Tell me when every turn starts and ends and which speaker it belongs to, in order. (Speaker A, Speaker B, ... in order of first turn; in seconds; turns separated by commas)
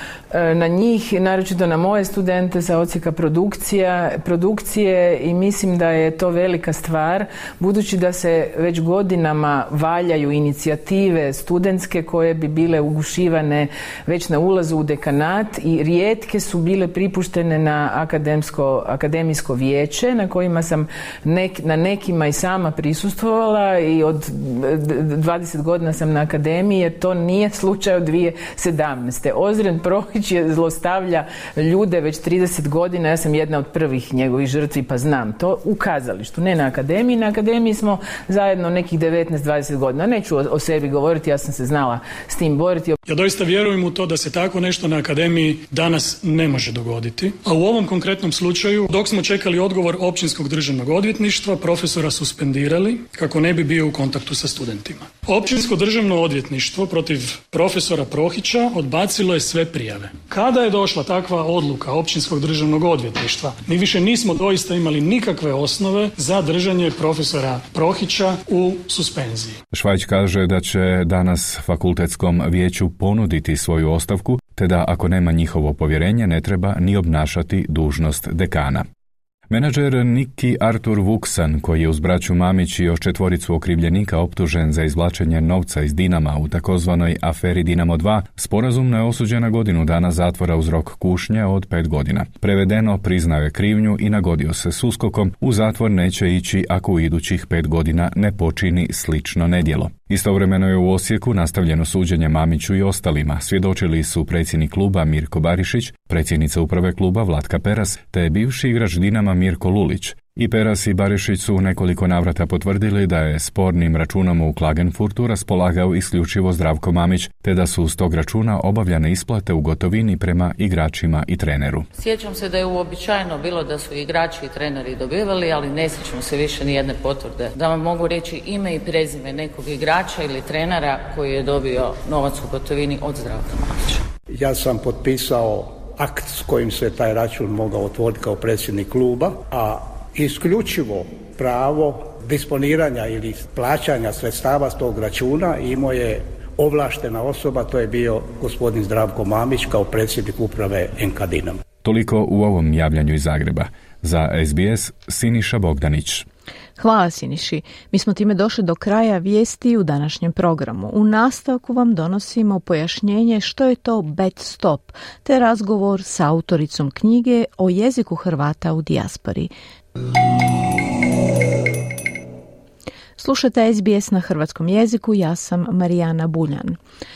Speaker A: 0.3-43.0, Speaker B: 43.1-69.6, Speaker C: 69.7-78.8, Speaker C: 79.5-121.9, Speaker D: 121.9-134.0, Speaker E: 134.3-151.6, Speaker C: 151.8-156.3, Speaker F: 156.8-169.5, Speaker F: 173.2-176.8